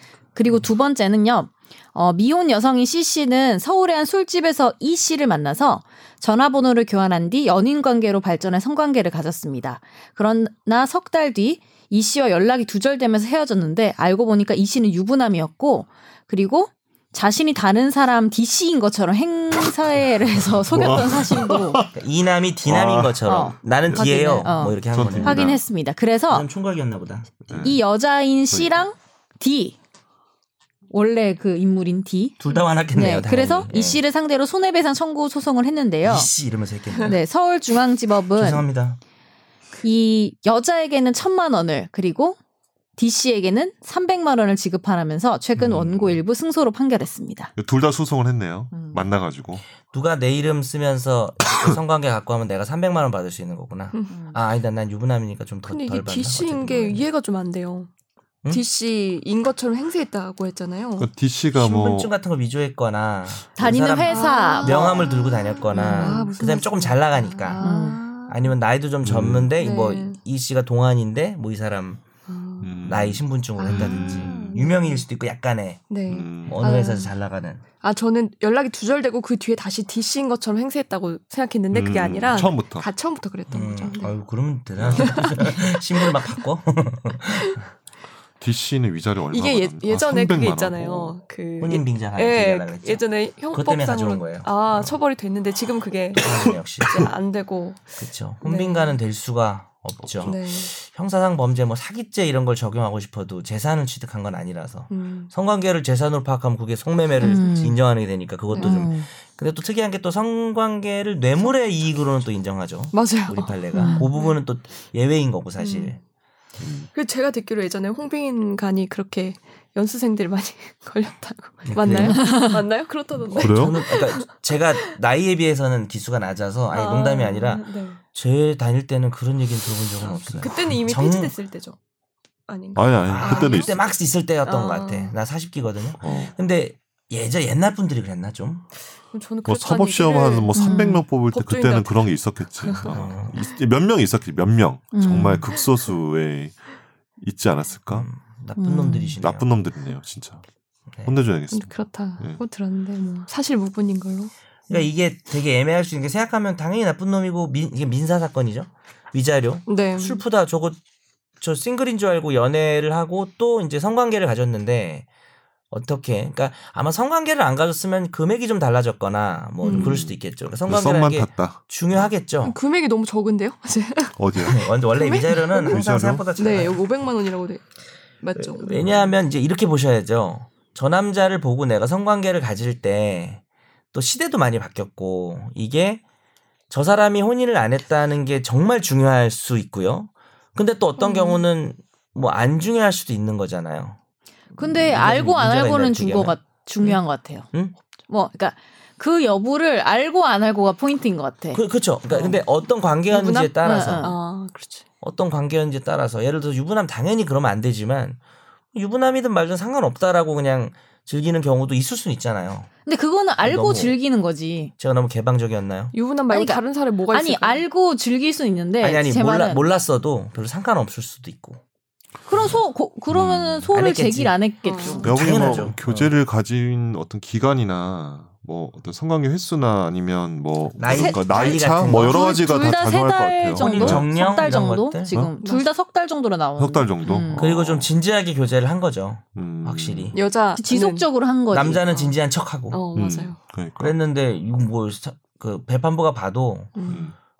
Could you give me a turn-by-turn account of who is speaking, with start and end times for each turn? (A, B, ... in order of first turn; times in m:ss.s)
0:00.3-0:21.8 A
0:20.7-0:21.9 B
0:21.9-0:25.6 C
0:22.6-0:23.2 B
0:23.2-0:26.5 A
0:23.8-0:24.1 B
0:24.9-0:25.6 B
0:26.3-0:27.4 C
0:27.5-0:27.8 B
0:27.6-0:29.8 A
0:30.9-0:32.4 A
0:32.4-0:34.0 C
0:32.9-0:36.3 A
0:36.0-0:37.2 C
0:37.0-0:38.6 A
0:38.4-0:39.0 C
0:39.8-0:42.4 A
0:43.0-0:47.5 A
0:45.6-0:46.1 C
0:47.6-0:49.6 B
0:48.7-0:49.0 A
0:49.8-0:57.0 C
0:54.1-0:54.4 A
0:55.7-0:57.9 D
0:58.5-1:01.1 D
1:01.0-1:02.1 B
1:01.5-1:07.6 C
1:03.6-1:05.0 A
1:04.1-1:08.5 D
1:07.6-1:08.0 A
1:08.2-1:12.0 C
1:09.0-1:09.5 B
1:09.6-1:10.2 D
1:12.3-1:12.8 D
1:12.6-1:14.6 B
1:12.8-1:17.6 C
1:13.6-1:15.0 D
1:15.9-1:17.1 D
1:16.1-1:16.6 B
1:17.8-1:24.1 D
1:21.7-1:22.9 B
1:23.5-1:27.6 C
1:24.8-1:25.2 B
1:24.9-1:26.4 D
1:28.4-1:31.2 B
1:29.3-1:39.0 D
1:31.6-1:34.5 C
1:36.2-1:37.1 C
1:38.0-1:56.0 C
1:40.2-1:40.7 D
1:44.9-1:45.3 D
1:47.2-1:47.8 A
1:48.5-1:48.9 D
1:48.6-1:49.0 A
1:52.9-1:54.4 D
1:53.7-1:54.1 A
1:55.6-1:55.9 D
1:56.6-1:56.9 B
1:56.9-2:04.3 D
2:01.6-2:02.3 C
2:02.1-2:02.6 A
2:03.3-2:11.3 C
2:03.4-2:03.8 B
2:06.7-2:08.0 D
2:10.0-2:10.5 B
2:10.4-2:11.8 D
2:12.5-2:13.8 D
2:12.8-2:13.7 B
2:13.1-2:18.6 C
2:14.4-2:15.1 D
2:16.0-2:16.3 B
2:19.1-2:23.0 D
2:19.4-2:26.6 B
2:20.5-2:21.0 A
2:22.9-2:23.4 C
2:24.9-2:25.5 A
2:27.2-2:28.1 B
2:27.9-2:29.5 C
2:28.6-2:29.2 A
2:29.2-2:30.4 B
2:31.0-2:32.4 B
2:31.5-2:34.3 D
2:34.7-2:40.8 C
2:39.7-2:40.2 D
2:41.4-2:45.0 C
2:45.7-2:52.6 C
2:49.6-2:50.0 D
2:49.7-2:52.0 B
2:52.4-2:55.8 D
2:54.2-2:54.6 B
2:54.4-2:56.8 C
2:55.7-2:56.2 B
2:56.4-2:57.6 D
2:58.2-2:58.8 D
2:58.4-3:03.4 C
3:03.9-3:06.0 C
3:06.7-3:14.0 C
3:11.0-3:11.4 D
3:14.5-3:17.0 C
3:14.6-3:17.5 A
3:18.1-3:21.6 A
3:21.5-3:24.1 C
3:22.1-3:22.4 D
3:23.1-3:24.8 D
3:23.6-3:24.2 A
3:25.0-3:28.2 C
3:28.7-3:32.7 C
3:32.8-3:34.7 A
3:33.4-3:34.0 C
3:34.8-3:35.9 C
3:35.9-3:37.6 D
3:36.3-3:36.6 A
3:37.1-3:39.6 A
3:38.8-3:41.6 C
3:42.3-3:45.6 A
3:43.1-3:43.7 B
3:43.7-3:44.4 C
3:44.6-3:45.1 D
3:44.9-3:46.1 C
3:45.0-3:54.1 B
3:50.8-3:52.3 C
3:50.9-3:57.6 A
3:53.6-3:55.2 C
3:55.4-3:55.7 D
3:56.6-3:57.9 B
3:57.3-4:00.2 C
3:59.4-4:00.2 B
4:00.1-4:01.0 D
4:00.6-4:02.0 A
4:01.5-4:02.8 C
4:02.7-4:03.4 D
4:02.9-4:04.0 B
4:03.8-4:06.8 C
4:06.7-4:07.1 D
4:06.9-4:07.1 B